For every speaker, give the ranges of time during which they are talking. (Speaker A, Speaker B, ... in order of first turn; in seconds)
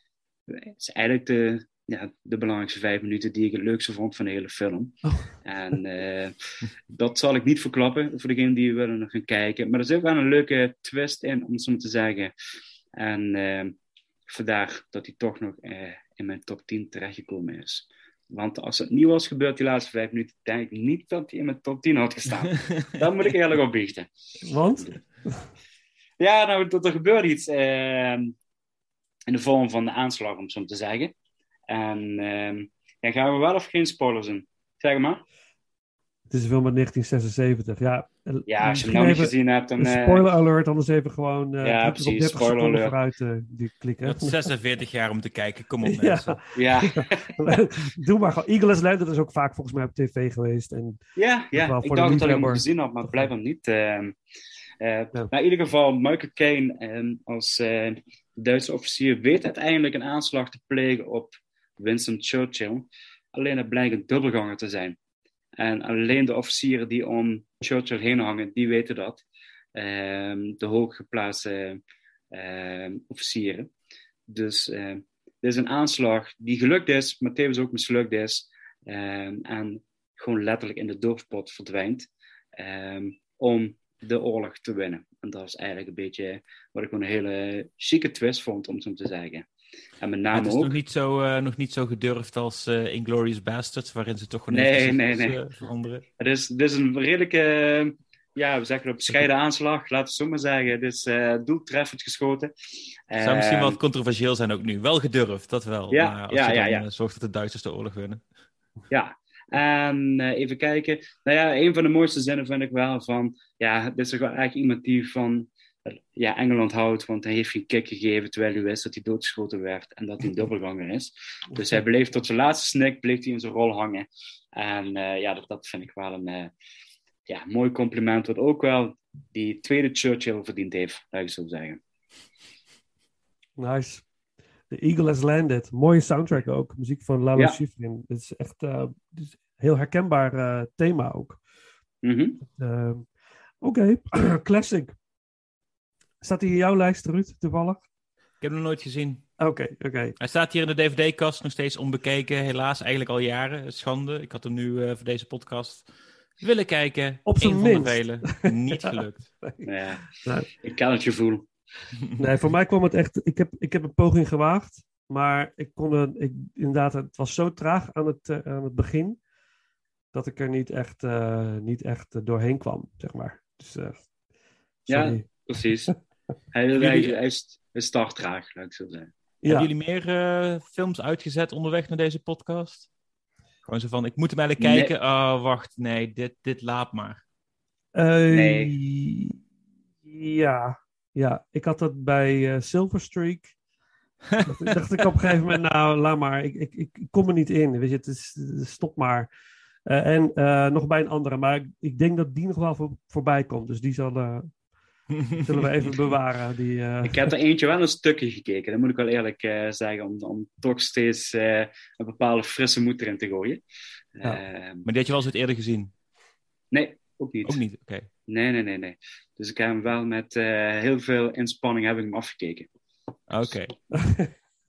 Speaker A: 0.5-6.3, 6.9-12.3, 13.0-13.8, 14.3-24.1, 26.2-28.4, 29.3-31.1, 31.7-35.2, 38.5-40.3, 41.6-43.0, 46.6-47.3, 51.2-54.2, 54.8-65.0, 65.6-69.2, 69.8-71.8, 72.3-73.7, 74.3-89.5, 90.0-90.8, 94.5-95.4, 96.2-102.5, 103.1-103.8, 105.9-106.8, 108.9-126.5, 127.3-131.8, 142.0-142.4, 159.7-161.5, 174.9-175.9, 176.5-179.1, 184.6-184.9, 188.3-188.7, 207.0-213.6, 214.2-214.9, 216.7-217.6, 218.3-222.7
Speaker B: 5.0-5.3, 24.4-25.5, 36.3-44.5, 45.8-51.0, 51.5-52.6, 133.6-134.0, 134.7-141.4, 142.4-143.1, 143.6-144.9, 146.2-147.8, 149.4-150.2, 157.3-160.5, 162.2-169.2, 170.1-174.0, 174.9-175.9, 179.4-179.7, 187.9-189.4, 190.1-193.5, 194.4-199.3, 199.9-204.5, 205.4-207.3, 223.9-224.3
Speaker C: 44.0-46.4, 90.3-96.1, 103.2-108.2, 148.4-149.3, 150.2-155.9, 156.4-159.3, 176.8-177.2, 179.5-182.9, 183.7-187.2, 194.3-194.8, 205.1-205.9, 214.8-215.9, 217.4-218.1, 223.3-223.7